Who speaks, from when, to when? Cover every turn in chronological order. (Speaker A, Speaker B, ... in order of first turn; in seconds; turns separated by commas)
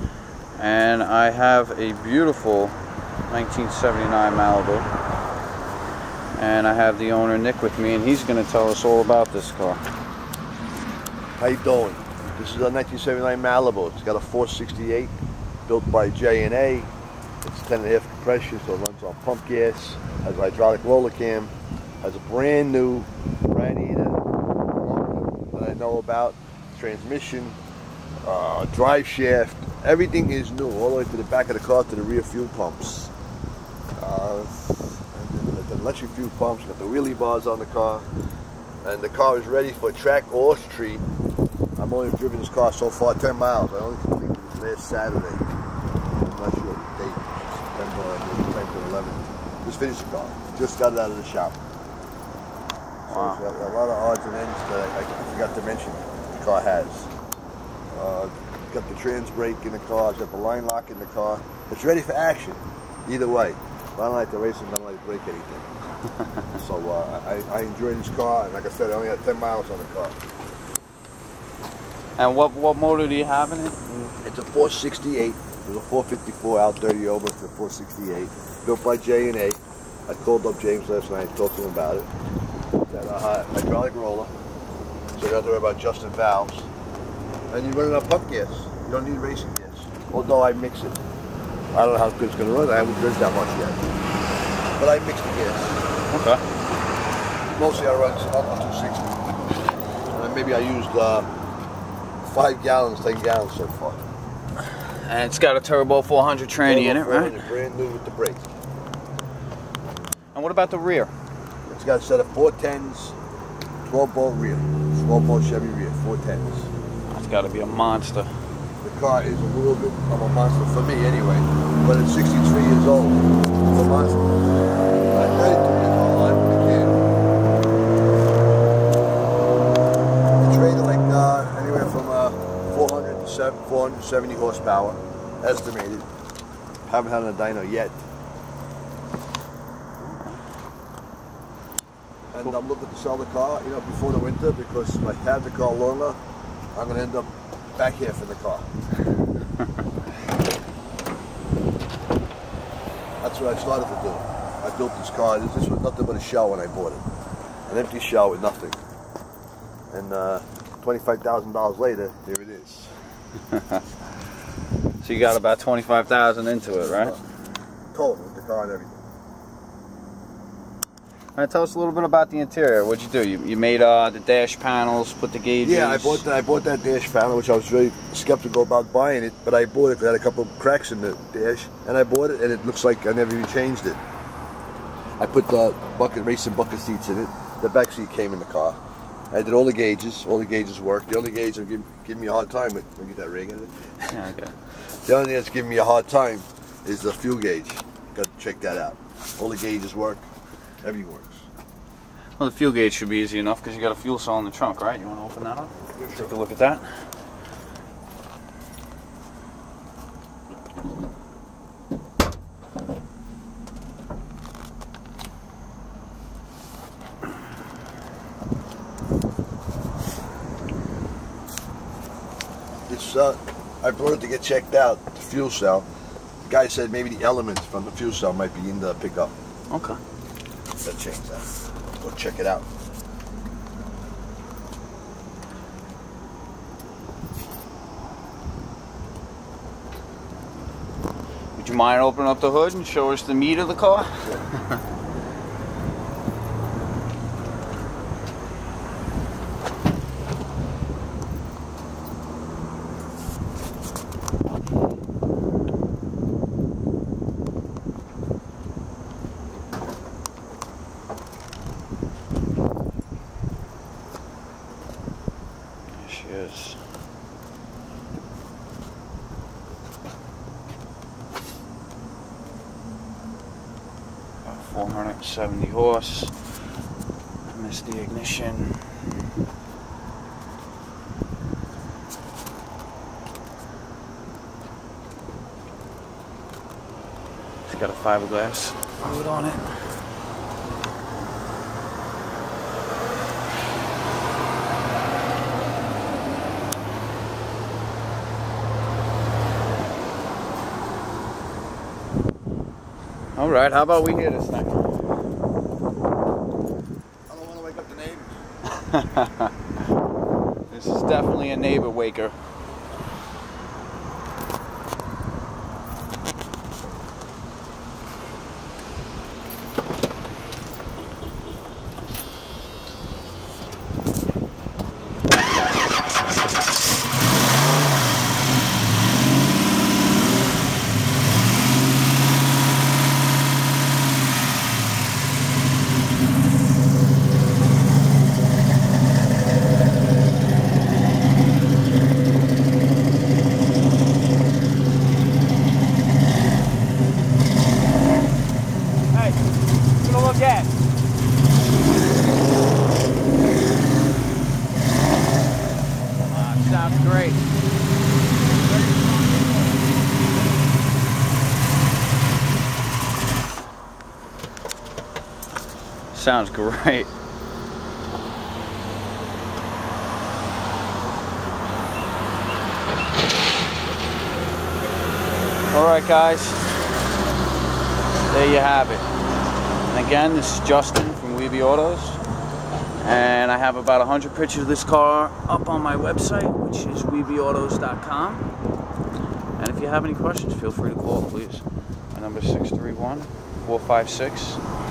Speaker A: 0.6-2.8, Speaker A: 3.3-4.9, Speaker A: 6.3-9.8, Speaker B: 11.4-15.1, Speaker B: 15.7-16.9, Speaker B: 17.4-24.2, Speaker B: 24.8-27.6, Speaker B: 28.2-33.1, Speaker B: 34.0-38.0, Speaker B: 38.8-41.0, Speaker B: 41.8-45.4, Speaker B: 46.1-51.6, Speaker B: 53.1-57.1, Speaker A: 53.1-53.4, Speaker B: 57.9-65.7, Speaker B: 66.5-70.2, Speaker A: 72.2-74.1, Speaker B: 74.2-82.1, Speaker B: 82.9-84.3, Speaker B: 85.2-86.7, Speaker B: 87.5-91.0, Speaker B: 91.7-93.8, Speaker B: 94.8-95.7, Speaker A: 96.1-96.4, Speaker B: 97.5-99.1, Speaker B: 100.1-101.3, Speaker B: 102.2-104.0, Speaker A: 104.7-107.5, Speaker B: 106.6-108.4, Speaker A: 110.3-111.1, Speaker B: 111.7-113.2, Speaker B: 113.8-116.7, Speaker A: 117.1-118.3, Speaker B: 118.8-124.2, Speaker B: 125.1-127.0, Speaker B: 130.4-136.1, Speaker B: 136.8-138.0, Speaker A: 140.0-140.4, Speaker B: 142.3-146.2, Speaker B: 146.7-148.7, Speaker B: 153.2-157.0, Speaker B: 157.7-158.8, Speaker B: 159.9-162.9, Speaker A: 163.5-163.8, Speaker A: 165.0-167.2, Speaker B: 166.9-167.2, Speaker B: 167.9-169.0, Speaker A: 171.3-176.2, Speaker B: 175.6-184.0, Speaker B: 185.2-188.8, Speaker B: 189.3-193.7, Speaker A: 194.0-194.5, Speaker B: 195.0-200.2, Speaker B: 200.8-201.4, Speaker A: 202.4-206.9, Speaker B: 205.9-206.3, Speaker B: 222.9-225.9, Speaker B: 226.4-229.3, Speaker A: 229.7-230.0, Speaker B: 230.8-232.7, Speaker A: 241.6-244.8, Speaker A: 265.9-266.8, Speaker A: 274.4-276.4, Speaker A: 277.4-279.1, Speaker A: 287.6-290.0, Speaker A: 303.4-304.8, Speaker B: 307.3-308.4, Speaker A: 308.7-309.5, Speaker A: 310.7-312.3, Speaker A: 349.1-349.4, Speaker A: 350.0-350.7, Speaker A: 356.3-357.4, Speaker A: 366.1-367.1, Speaker A: 375.7-376.6, Speaker A: 378.3-379.1, Speaker A: 379.9-382.2, Speaker A: 383.0-388.4, Speaker A: 389.6-394.6